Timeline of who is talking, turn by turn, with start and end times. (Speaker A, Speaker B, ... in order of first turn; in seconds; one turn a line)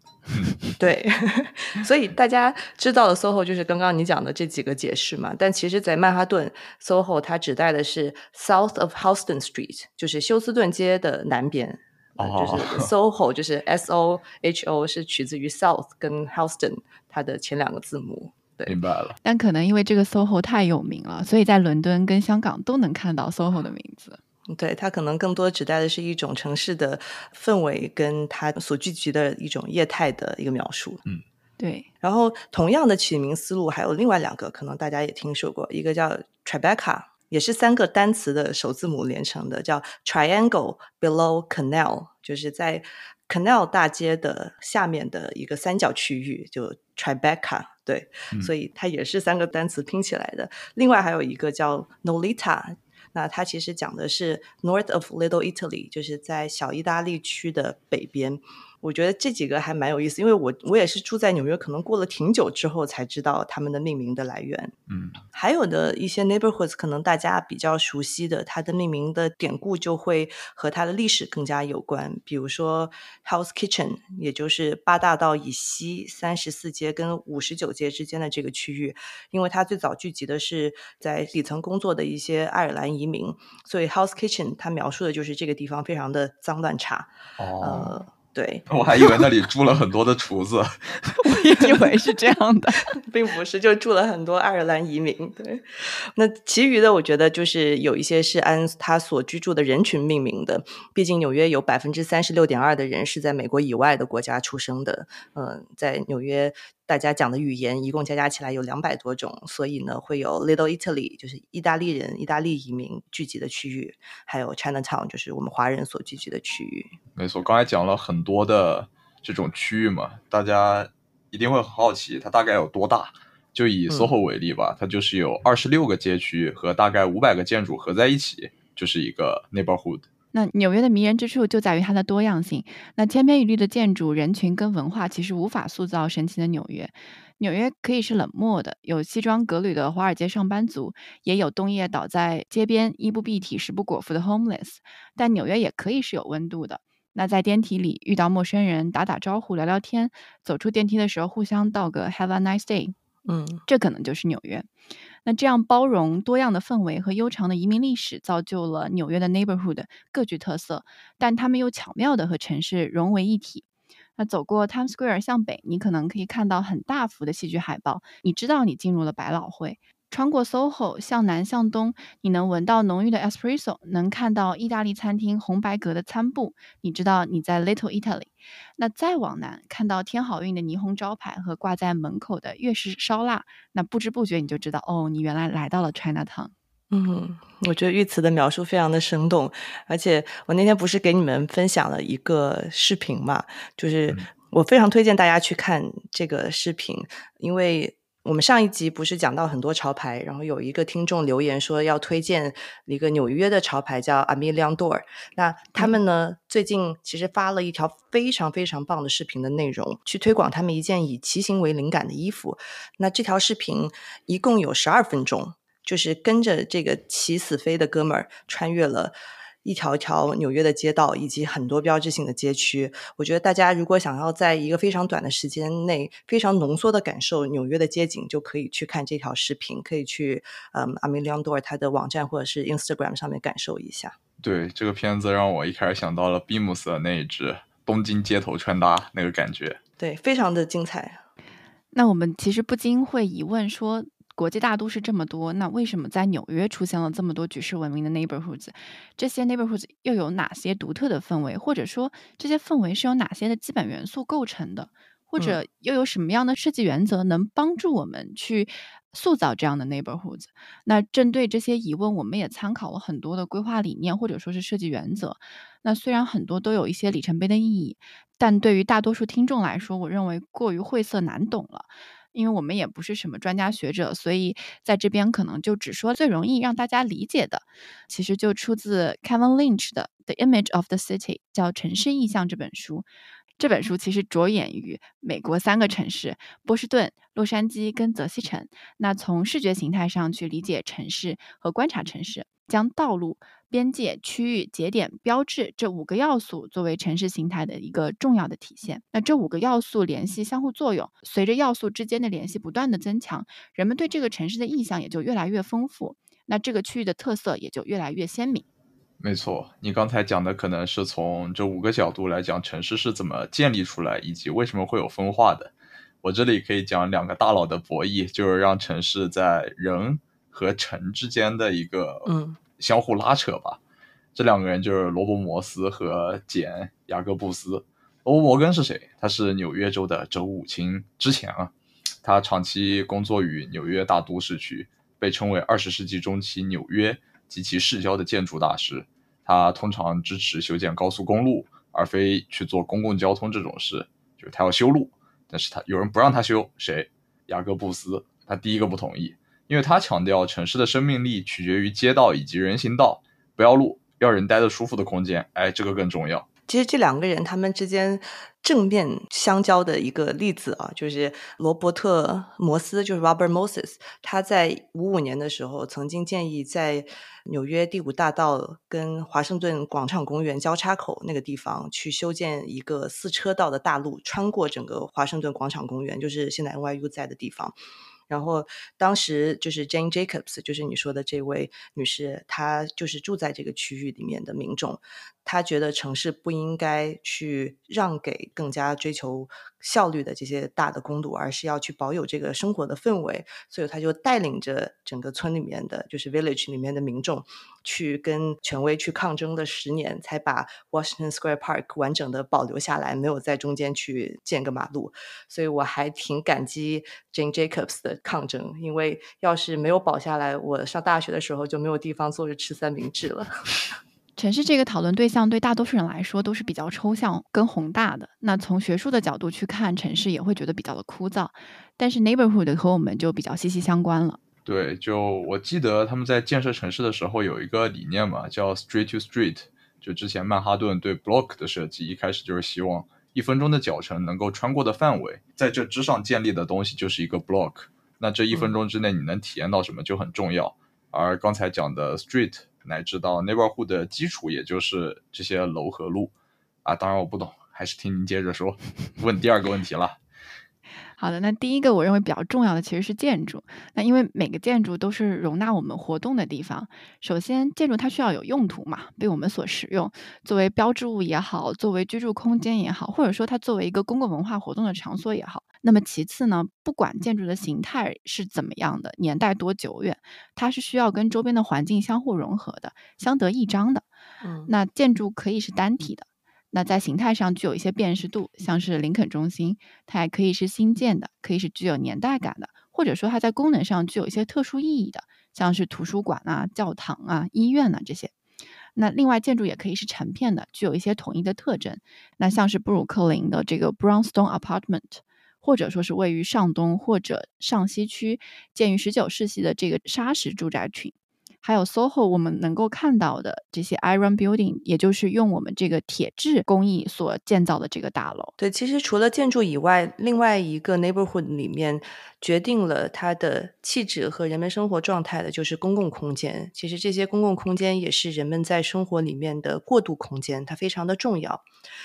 Speaker A: 0.8-18.8
Speaker B: 12.2-12.9
Speaker B: 18.7-19.2
Speaker C: 19.2-24.2
Speaker A: 24.5-31.0
Speaker C: 31.6-31.9
Speaker A: 32.0-64.7
Speaker B: 64.9-65.2
Speaker A: 65.3-88.7
Speaker B: 87.4-88.0
Speaker B: 88.7-91.1
Speaker C: 91.2-93.0
Speaker A: 93.1-117.0
Speaker B: 117.2-130.1
Speaker C: 130.3-152.9
Speaker A: 153.3-153.6
Speaker C: 153.7-154.7
Speaker C: 155.2-163.7
Speaker C: 164.2-186.5
Speaker A: 186.9-234.2
Speaker B: 234.4-239.8
Speaker A: 240.0-241.2
Speaker C: 241.9-283.1
Speaker C: 283.6-308.6
Speaker B: 309.2-315.7
Speaker B: 316.2-323.8
Speaker A: 322.3-322.6
Speaker B: 324.4-331.7
Speaker B: 332.2-356.5
Speaker A: 356.7-377.8
Speaker A: 378.3-413.6
Speaker C: 414.4-424.4
Speaker B: 424.6-446.3
Speaker B: 446.9-450.2
Speaker C: 451.2-474.1
Speaker A: 474.4-474.7
Speaker C: 474.7-488.3
Speaker C: 489.0-508.5
Speaker A: 508.6-521.6